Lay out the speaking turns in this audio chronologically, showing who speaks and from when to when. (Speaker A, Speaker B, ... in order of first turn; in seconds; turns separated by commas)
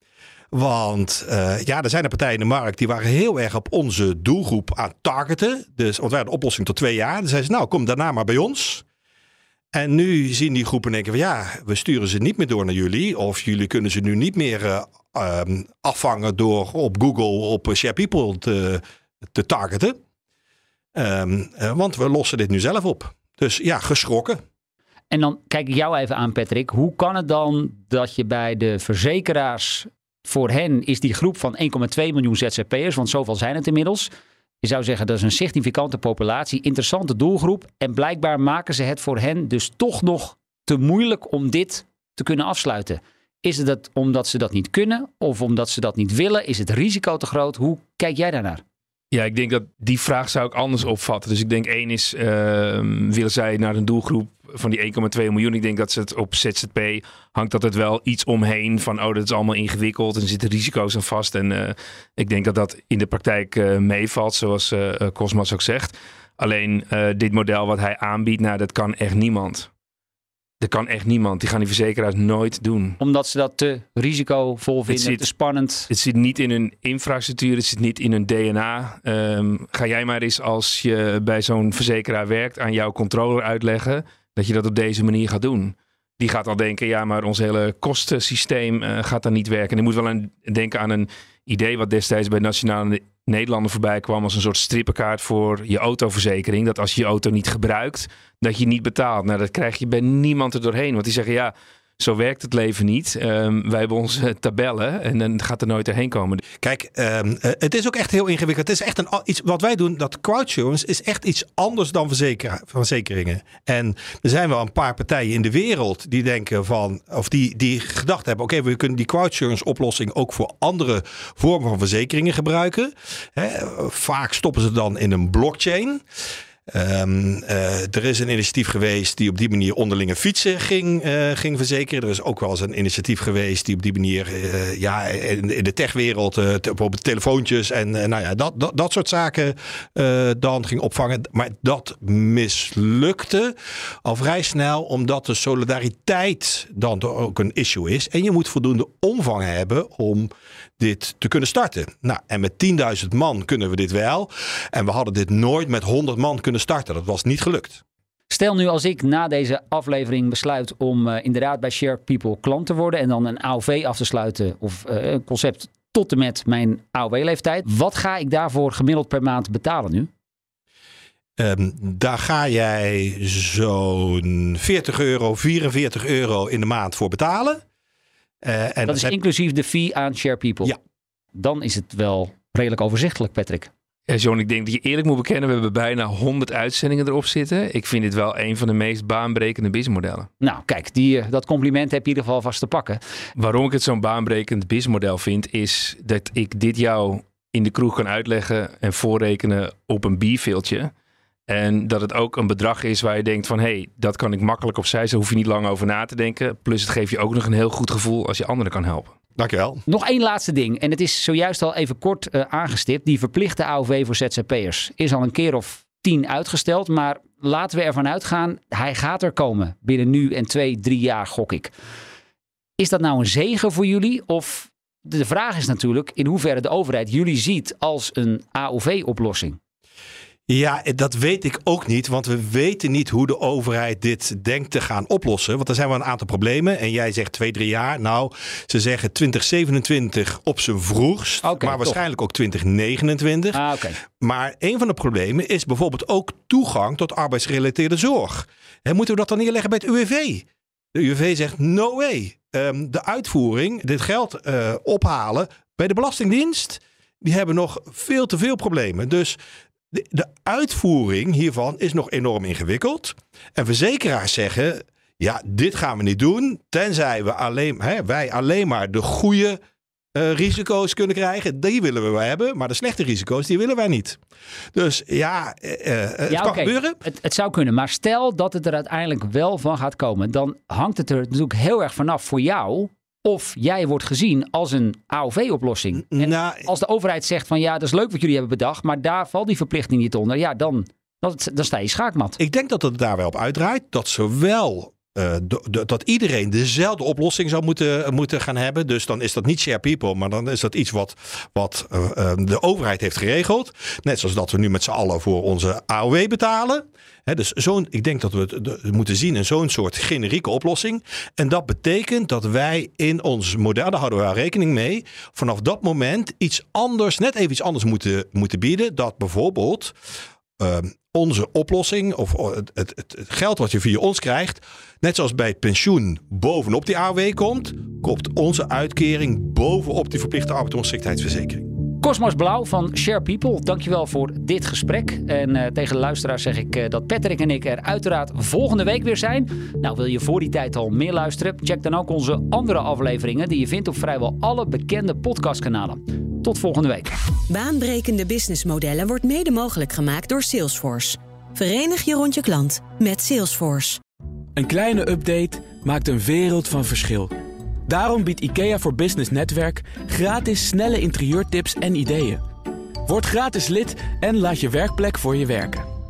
Speaker A: 0.5-8.8, Speaker A: 9.7-20.0, Speaker A: 20.9-24.4, Speaker B: 25.1-34.1, Speaker B: 34.6-48.6, Speaker C: 49.1-69.7, Speaker C: 70.6-73.0, Speaker B: 73.0-75.9, Speaker C: 74.9-75.2, Speaker C: 75.9-106.4, Speaker A: 106.6-126.0, Speaker A: 126.7-157.8, Speaker B: 158.3-170.1, Speaker A: 171.4-177.6, Speaker A: 178.4-179.1, Speaker B: 178.8-180.7, Speaker B: 181.3-183.7, Speaker C: 184.1-190.3, Speaker B: 190.4-193.0, Speaker C: 193.3-200.9, Speaker C: 201.5-209.1, Speaker A: 209.4-209.8, Speaker B: 209.9-221.7, Speaker B: 222.8-229.6, Speaker A: 230.5-259.4, Speaker B: 241.4-242.0, Speaker B: 243.5-244.0, Speaker A: 259.9-269.6, Speaker A: 270.1-274.2, Speaker A: 274.7-277.0, Speaker B: 276.3-292.4, Speaker A: 286.1-286.7, Speaker A: 292.4-319.9, Speaker A: 320.6-331.7, Speaker B: 332.0-347.1, Speaker D: 347.5-354.0, Speaker E: 354.6-357.3, Speaker E: 357.9-362.4, Speaker E: 363.1-365.9